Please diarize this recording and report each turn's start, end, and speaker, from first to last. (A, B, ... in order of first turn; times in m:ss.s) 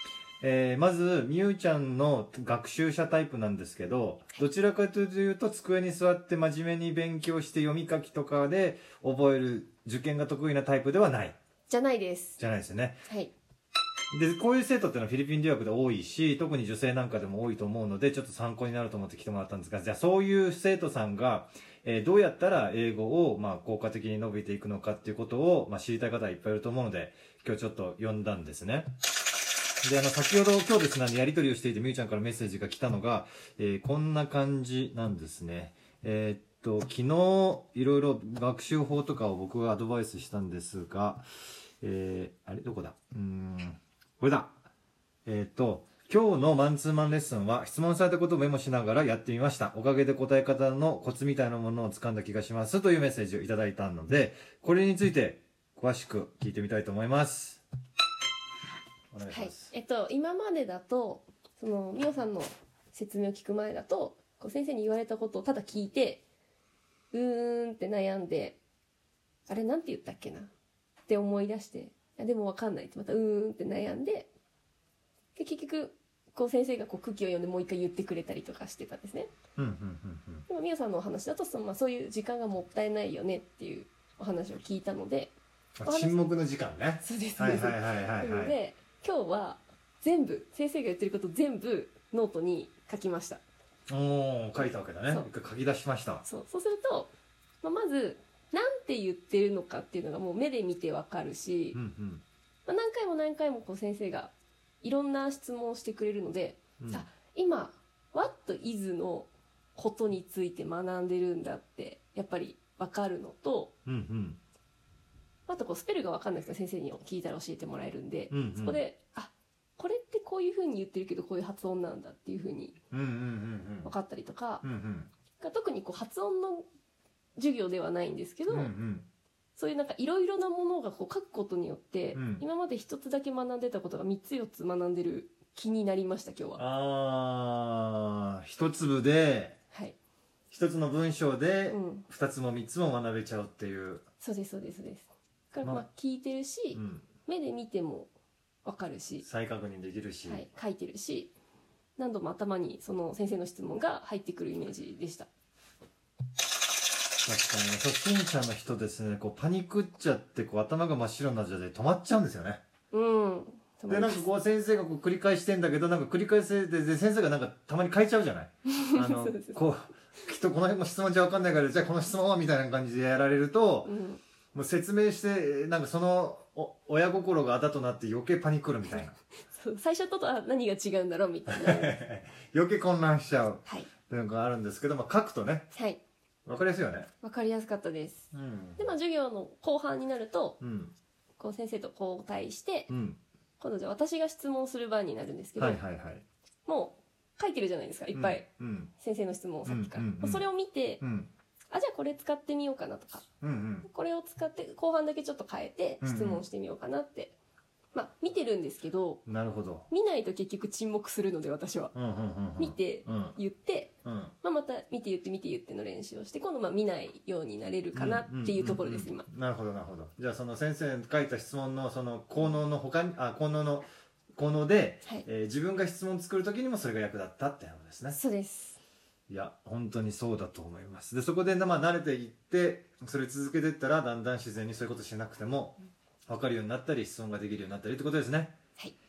0:00.4-0:11.4 A
0:11.7-0:12.4 B
0:12.4-0:13.1 A
0:13.1-0:13.3 B
0:14.1-0:28.9 A
0:29.8-0:41.2 A
0:41.8-0:44.5 A
0:45.3-0:57.6 A
0:59.1-0:59.7 A
0:59.3-1:06.2 B
1:07.1-1:08.6 B
1:09.5-1:10.5 B
1:11.1-1:14.3 B
1:15.4-1:19.3 B
1:19.6-1:20.4 A
1:20.5-1:25.3 B
1:25.8-1:28.6 A
1:25.8-1:26.2 B
1:27.0-1:33.4 B
1:33.9-1:36.2 A
1:36.2-1:37.1 B
1:37.6-1:41.8 B
1:41.7-1:42.2 A
1:42.7-1:53.7 B
1:46.8-1:47.1 A
1:53.9-1:54.4 A
1:55.5-2:02.8 B
1:58.3-1:58.8 A
2:02.9-2:03.9 A
2:03.8-2:04.6 B
2:04.6-2:05.1 A
2:05.4-2:06.6 B
2:07.4-2:08.7 B
2:08.5-2:09.1 A
2:09.6-2:16.6 B
2:12.1-2:12.4 A
2:16.6-2:19.6 A
2:20.5-2:24.0 A
2:21.7-2:22.1 B
2:24.2-2:28.1 B
2:26.7-2:27.1 A
2:28.6-2:29.2 B
2:29.2-2:30.5 A
2:30.3-2:31.3 B
2:32.0-2:35.3 B
2:37.2-2:42.6 A
2:42.9-2:44.2 B
2:43.9-2:53.9 A
2:48.7-2:49.6 B
2:53.9-2:54.2 B
2:54.5-2:59.2 A
2:59.5-3:02.0 B
3:01.5-3:05.7 A
3:05.7-3:06.0 B
3:06.5-3:07.1 A
3:07.2-3:10.6 B
3:08.3-3:08.9 A
3:10.6-3:10.9 A
3:11.4-3:12.9 B
3:12.9-3:13.2 A
3:13.6-3:15.8 B
3:15.6-3:16.2 A
3:16.7-3:18.4 B
3:18.1-3:18.9 A
3:19.0-3:21.0 B
3:19.6-3:20.4 A
3:21.0-3:21.3 A
3:21.7-3:23.3 B
3:23.4-3:23.9 A
3:23.8-3:27.4 B
3:26.0-3:26.4 A
3:27.9-3:29.2 B
3:29.3-3:29.9 A
3:29.9-3:31.9 B
3:31.9-3:33.4 A
3:32.6-3:33.9 B
3:34.0-3:34.3 A
3:34.4-3:39.3 B
3:37.9-3:48.2 A
3:48.1-3:48.8 B
3:49.3-3:58.6 A